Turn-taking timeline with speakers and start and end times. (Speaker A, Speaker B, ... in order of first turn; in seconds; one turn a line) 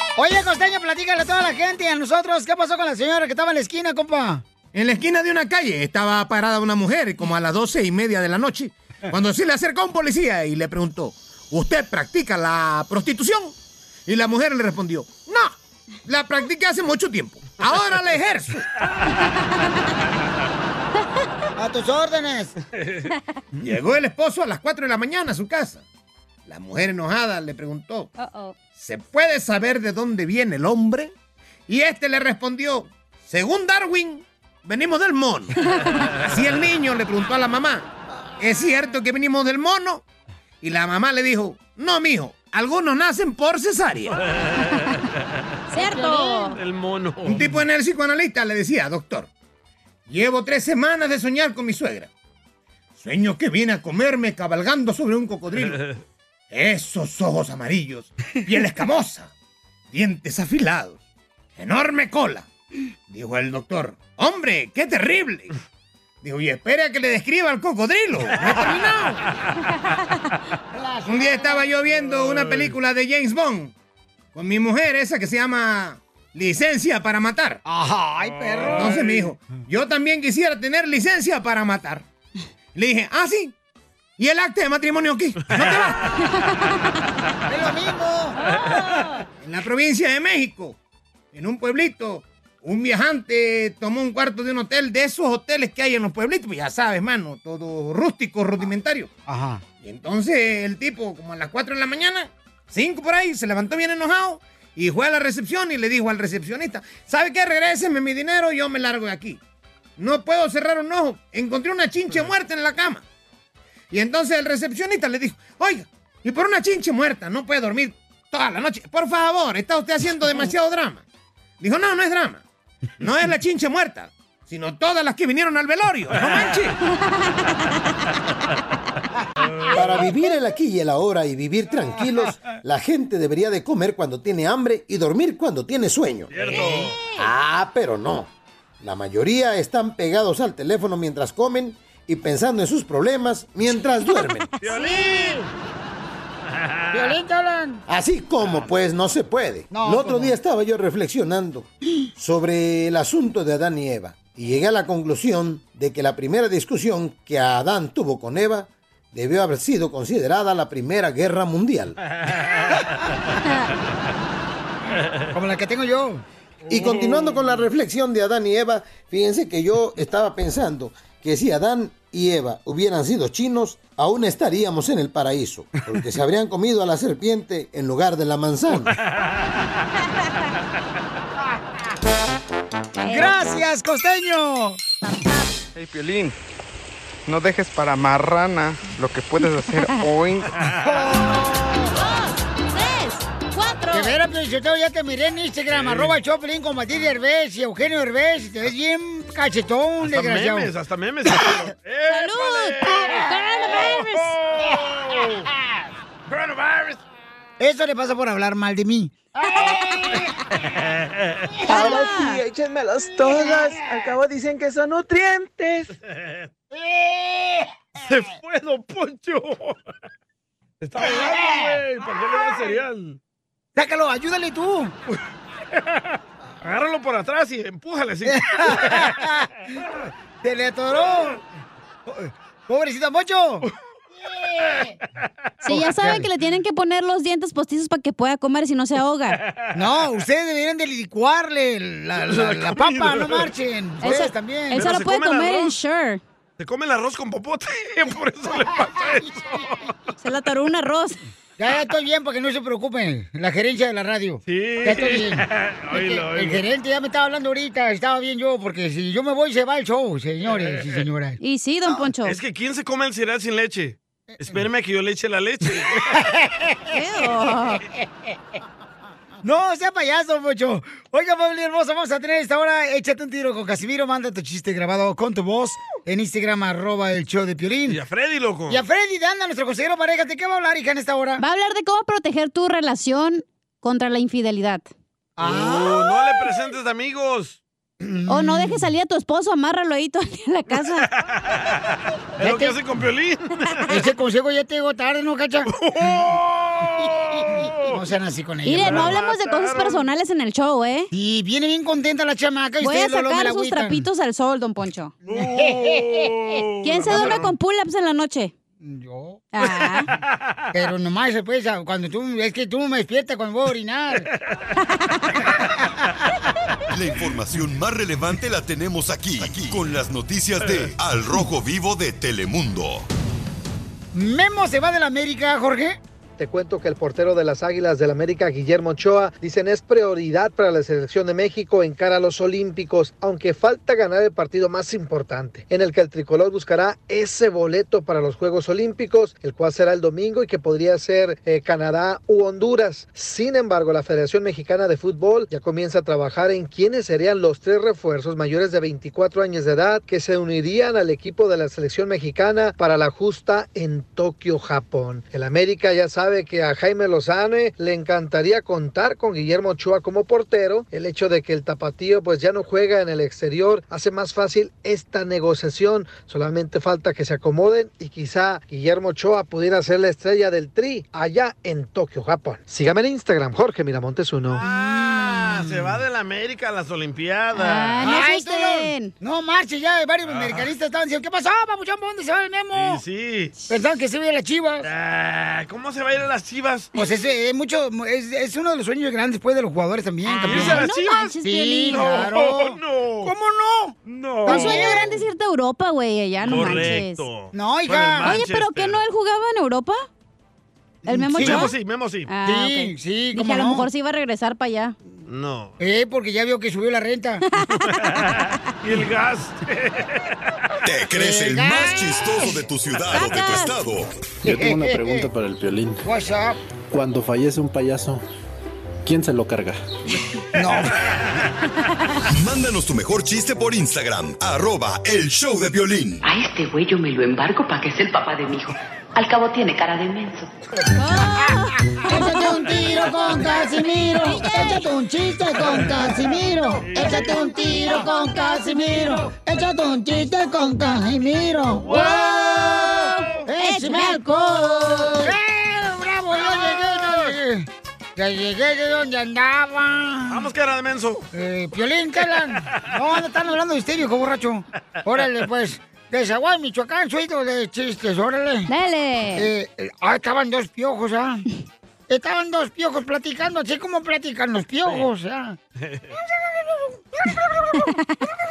Speaker A: 0.2-4.4
Speaker B: 4.7-13.5
Speaker B: 14.1-15.6
Speaker B: 16.1-18.6
Speaker A: 21.6-22.6
Speaker C: 22.8-23.1
Speaker B: 23.6-25.8
Speaker B: 26.5-28.1
Speaker D: 28.2-28.5
Speaker B: 28.7-31.1
Speaker B: 31.7-35.5
Speaker D: 35.8-36.1
Speaker B: 36.2-37.9
Speaker B: 38.4-40.0
Speaker B: 40.6-44.2
Speaker D: 45.7-46.6
Speaker C: 45.9-47.6
Speaker B: 47.2-49.3
Speaker B: 50.1-52.1
Speaker B: 53.0-55.8
Speaker B: 56.5-59.3
Speaker B: 59.9-61.0
Speaker B: 61.6-62.5
Speaker B: 63.1-65.5
Speaker B: 66.2-69.2
Speaker A: 70.7-71.7
Speaker B: 71.1-73.7
Speaker C: 72.4-72.7
Speaker B: 74.3-77.6
Speaker A: 77.7-79.2
Speaker C: 78.2-79.0
Speaker B: 78.7-82.0
Speaker B: 82.8-83.5
Speaker B: 84.2-86.1
Speaker A: 87.5-88.4
Speaker B: 89.4-90.8
Speaker B: 91.3-99.1
Speaker A: 99.3-99.6
Speaker B: 99.8-109.4
Speaker B: 110.0-113.0
Speaker B: 113.9-121.0
Speaker B: 121.6-122.4
Speaker B: 123.0-126.8
Speaker E: 129.7-138.3
Speaker C: 136.3-137.0
Speaker E: 138.8-144.5
Speaker C: 144.6-145.4
Speaker A: 144.7-145.4
Speaker C: 146.6-147.2
Speaker A: 146.9-147.8
Speaker E: 147.9-162.0
Speaker A: 149.7-150.4
Speaker A: 165.3-166.2
Speaker E: 166.7-179.0
Speaker D: 183.0-183.4
Speaker A: 183.1-184.8
Speaker F: 185.8-186.3
Speaker F: 187.3-190.5
Speaker A: 190.8-191.9
Speaker D: 191.9-194.2
Speaker A: 193.9-200.7
Speaker C: 195.7-196.2
Speaker C: 200.0-205.5
Speaker D: 202.1-204.3
Speaker C: 206.3-207.0
Speaker A: 207.6-210.2
Speaker D: 211.7-212.4
Speaker G: 211.7-215.9
Speaker C: 216.1-216.5
Speaker A: 216.7-217.7
Speaker C: 218.0-219.8
Speaker C: 220.8-223.2
Speaker A: 221.1-221.6
Speaker A: 223.8-224.9
Speaker C: 226.6-229.3
Speaker A: 228.3-229.8
Speaker A: 230.4-231.4
Speaker A: 232.1-233.7
Speaker D: 235.6-239.4
Speaker A: 235.6-236.3
Speaker C: 239.4-239.8
Speaker A: 239.7-244.9
Speaker C: 242.2-243.5
Speaker D: 244.0-246.2
Speaker C: 244.7-245.8
Speaker C: 246.6-250.0
Speaker D: 250.2-251.2
Speaker A: 251.6-261.4
Speaker C: 254.5-256.6
Speaker C: 260.5-261.1
Speaker D: 261.4-262.4
Speaker C: 262.2-266.2
Speaker A: 264.4-264.6
Speaker A: 266.1-267.0
Speaker D: 266.9-267.8
Speaker A: 269.4-278.0
Speaker C: 277.9-278.8
Speaker A: 278.7-281.4
Speaker D: 281.4-284.9
Speaker A: 285.4-286.1
Speaker C: 285.4-287.6
Speaker A: 288.0-288.9
Speaker D: 288.3-291.1
Speaker C: 290.9-291.8
Speaker C: 292.4-294.0
Speaker A: 292.4-292.7
Speaker A: 293.9-296.3
Speaker C: 295.7-298.0
Speaker A: 297.9-299.2
Speaker D: 298.7-301.1
Speaker C: 298.9-300.0
Speaker A: 301.1-304.1
Speaker D: 302.8-305.1
Speaker C: 305.3-307.5
Speaker A: 305.3-306.3
Speaker D: 306.8-308.5
Speaker A: 307.1-307.4
Speaker A: 308.8-309.5
Speaker D: 309.5-310.1
Speaker C: 309.8-310.3
Speaker A: 310.7-314.3
Speaker H: 316.9-323.1
Speaker C: 320.7-320.9
Speaker A: 324.1-326.0
Speaker I: 326.4-374.6
Speaker C: 374.5-378.0
Speaker A: 374.6-375.6
Speaker D: 377.6-379.1
Speaker A: 378.0-383.0
Speaker C: 380.2-380.7
Speaker C: 382.7-383.5
Speaker A: 383.7-384.9
Speaker C: 384.8-386.9
Speaker A: 386.9-395.2
Speaker D: 390.2-392.2
Speaker C: 390.4-391.3
Speaker C: 391.9-393.3
Speaker C: 394.1-395.1
Speaker D: 394.5-397.3
Speaker C: 396.4-399.0
Speaker A: 396.5-396.8
Speaker A: 397.5-398.3
Speaker D: 398.2-400.1
Speaker A: 401.1-401.7
Speaker D: 401.1-401.8
Speaker C: 401.4-402.3
Speaker D: 402.3-404.9
Speaker A: 402.4-403.9
Speaker C: 405.3-405.8
Speaker A: 405.8-407.4
Speaker D: 407.5-408.4
Speaker C: 407.8-410.4
Speaker H: 410.9-414.1
Speaker A: 411.1-412.6
Speaker D: 413.1-413.8
Speaker J: 414.4-416.0
Speaker A: 414.4-415.3
Speaker A: 416.0-416.6
Speaker J: 416.9-418.2
Speaker J: 419.1-420.2
Speaker A: 420.6-421.0
Speaker H: 422.3-426.2
Speaker K: 426.2-430.5
Speaker D: 431.0-434.9
Speaker A: 432.1-450.5
Speaker C: 435.6-437.6
Speaker D: 437.0-439.2
Speaker C: 441.8-443.4
Speaker D: 441.9-445.3
Speaker C: 450.3-451.2
Speaker A: 451.3-458.7
Speaker D: 458.7-459.5
Speaker A: 459.4-461.4
Speaker A: 462.1-465.6
Speaker C: 465.8-466.1
Speaker A: 466.7-467.8